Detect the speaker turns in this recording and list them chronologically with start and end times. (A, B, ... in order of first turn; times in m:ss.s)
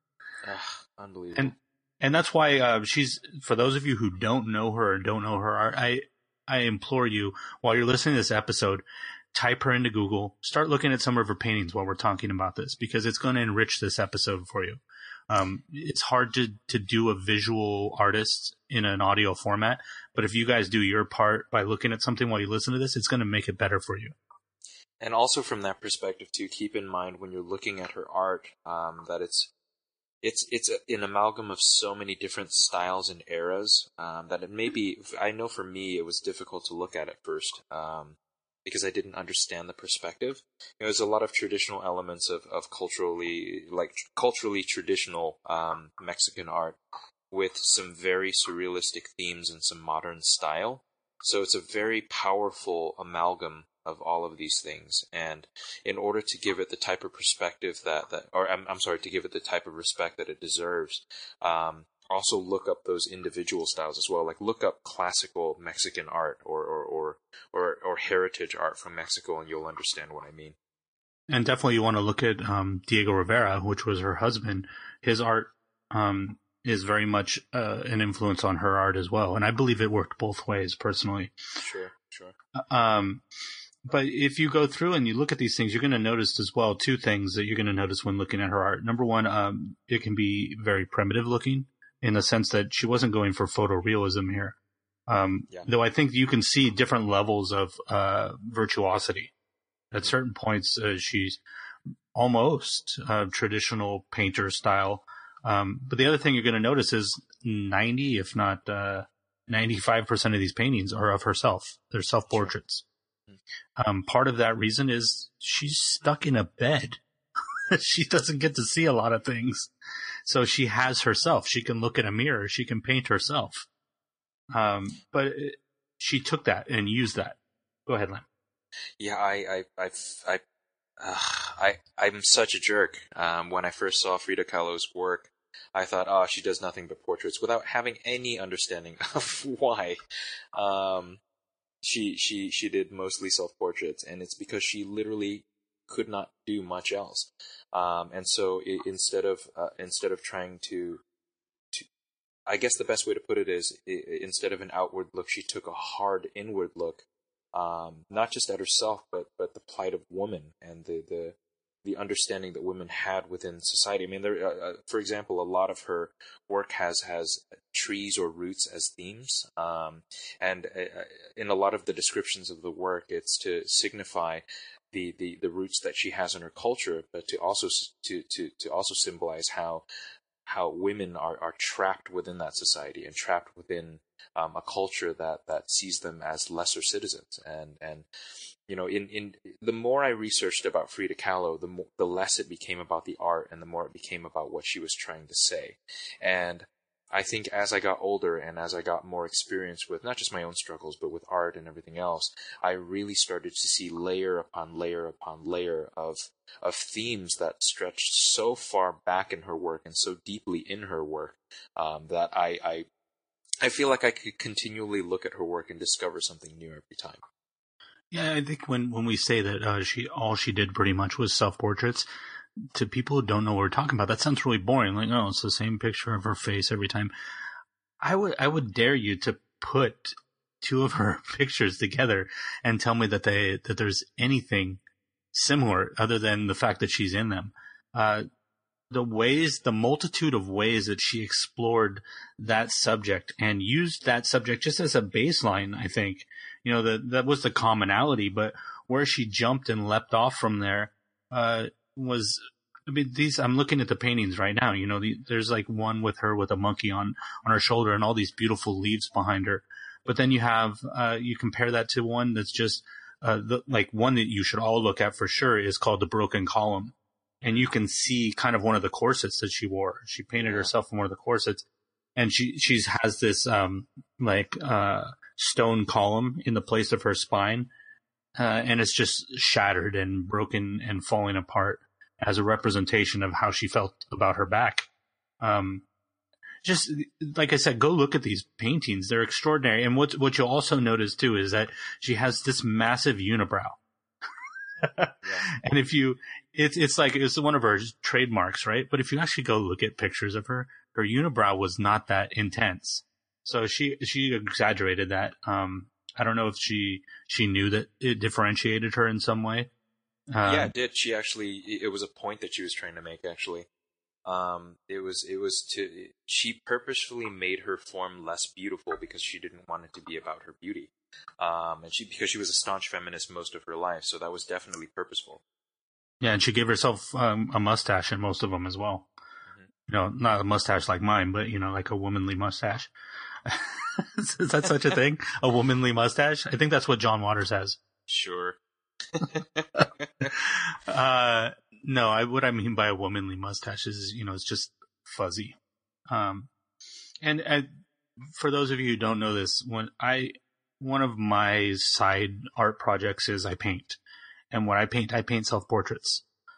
0:00.4-0:01.6 A
0:01.4-0:24.1 B
0:25.0-0:29.5 A
0:30.2-0:46.8 A
0:47.3-1:10.6 A
1:11.3-1:21.4 B
1:21.6-1:22.4 A
1:22.6-1:23.2 B
1:23.9-1:34.6 B
1:35.1-1:39.3 B
1:39.9-1:41.4 B
1:42.1-1:52.8 B
1:53.8-1:57.0 B
1:57.7-1:59.7 B
2:00.3-2:03.7 B
2:04.5-2:08.2 B
2:09.0-2:10.4 A
2:11.0-2:20.0 A
2:20.6-2:21.2 A
2:21.8-2:31.0 A
2:32.5-2:59.9 A
3:00.5-3:08.1 A
3:08.7-3:32.9 A
3:33.6-3:37.2 A
3:38.1-3:42.1 B
3:42.8-3:47.1 B
3:48.0-3:54.8 B
3:55.3-3:58.3 B
3:58.9-4:31.6 B
4:30.4-4:30.7 A
4:32.2-4:37.7 B
4:38.4-4:44.9 B
4:45.4-4:45.9 B
4:46.6-4:53.8 B
4:54.8-5:09.7 B
4:55.2-4:55.5 A
5:10.3-5:10.7 B
5:10.4-5:13.7 A
5:14.3-5:25.4 A
5:26.2-5:29.1 B
5:29.9-5:32.9 B
5:33.5-5:37.8 B
5:38.1-5:38.6 A
5:39.1-5:40.3 A
5:40.3-5:45.6 B
5:46.1-5:46.5 B
5:47.2-5:47.7 B
5:48.3-5:54.0 B
5:54.5-5:56.2 B